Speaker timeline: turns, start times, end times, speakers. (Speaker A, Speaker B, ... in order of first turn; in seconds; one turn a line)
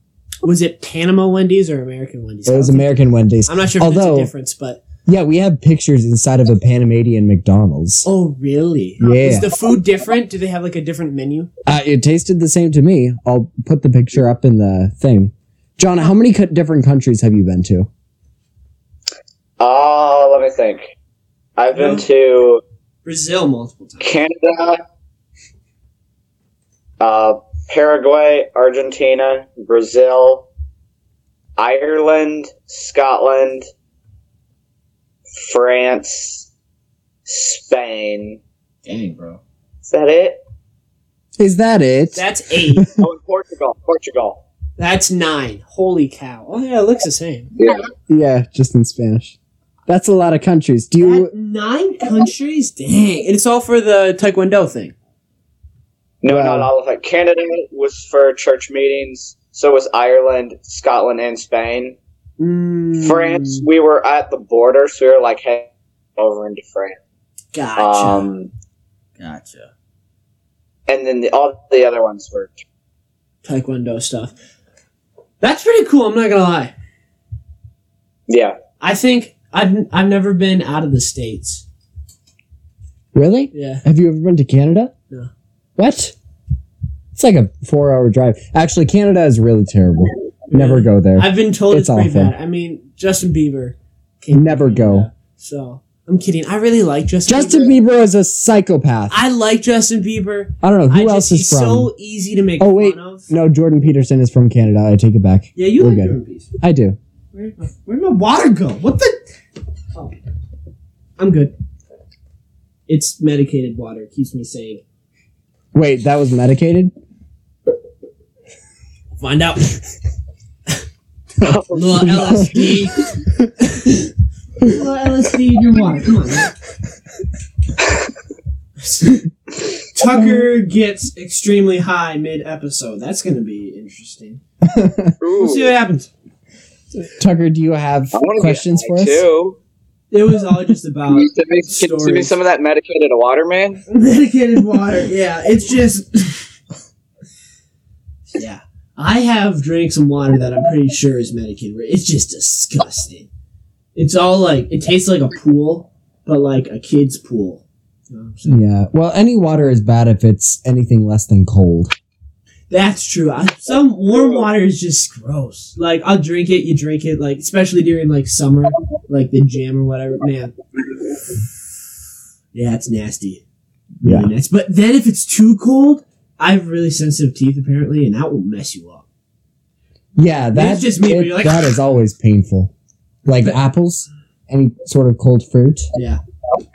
Speaker A: 0.4-4.8
Speaker B: 2.5-4.3
Speaker B: 5.0-8.1
Speaker A: 8.0-11.5
Speaker B: 9.0-9.5
Speaker B: 11.7-17.9
Speaker C: 19.6-20.9
Speaker C: 21.6-22.6
Speaker A: 21.7-22.1
Speaker A: 23.0-24.1
Speaker C: 24.0-24.8
Speaker C: 27.0-30.4
Speaker C: 31.6-33.7
Speaker C: 35.4-36.5
Speaker C: 37.3-38.4
Speaker A: 38.9-39.4
Speaker C: 39.9-40.4
Speaker B: 41.4-42.9
Speaker A: 42.1-42.9
Speaker C: 43.0-44.4
Speaker A: 44.8-47.5
Speaker C: 47.6-47.9
Speaker B: 48.1-49.4
Speaker B: 49.9-51.3
Speaker A: 51.0-54.9
Speaker C: 56.2-62.0
Speaker B: 56.2-56.7
Speaker A: 62.4-63.6
Speaker C: 63.0-67.0
Speaker A: 67.5-68.3
Speaker C: 67.8-68.5
Speaker A: 69.2-69.7
Speaker C: 70.9-72.6
Speaker A: 73.4-74.3
Speaker A: 75.4-76.7
Speaker C: 78.3-78.6
Speaker A: 78.8-81.6
Speaker B: 83.1-84.9
Speaker A: 83.5-83.8
Speaker B: 85.8-86.1
Speaker B: 87.1-92.3
Speaker A: 90.5-97.7
Speaker B: 94.3-95.1
Speaker B: 97.2-99.2
Speaker A: 99.1-103.3
Speaker B: 100.6-101.9
Speaker B: 102.6-107.0
Speaker A: 105.5-106.5
Speaker A: 107.3-109.2
Speaker A: 111.2-111.5
Speaker A: 112.9-114.8
Speaker B: 115.7-116.9
Speaker A: 119.2-119.8
Speaker C: 121.4-122.5
Speaker A: 121.7-123.1
Speaker B: 122.0-122.7
Speaker A: 124.6-126.5
Speaker A: 128.8-129.2
Speaker A: 129.9-134.4
Speaker B: 134.6-135.2
Speaker C: 135.2-135.7
Speaker A: 135.4-136.1
Speaker B: 137.0-139.2
Speaker C: 138.1-139.6
Speaker A: 140.1-142.3
Speaker C: 141.1-143.8
Speaker A: 143.9-146.4
Speaker A: 148.3-153.3
Speaker A: 153.9-158.6
Speaker B: 158.5-161.9
Speaker A: 162.7-170.6
Speaker A: 172.5-173.4
Speaker A: 174.0-179.0
Speaker B: 174.0-174.3
Speaker B: 180.2-182.7
Speaker A: 180.5-181.7
Speaker B: 183.2-185.9
Speaker A: 185.9-186.2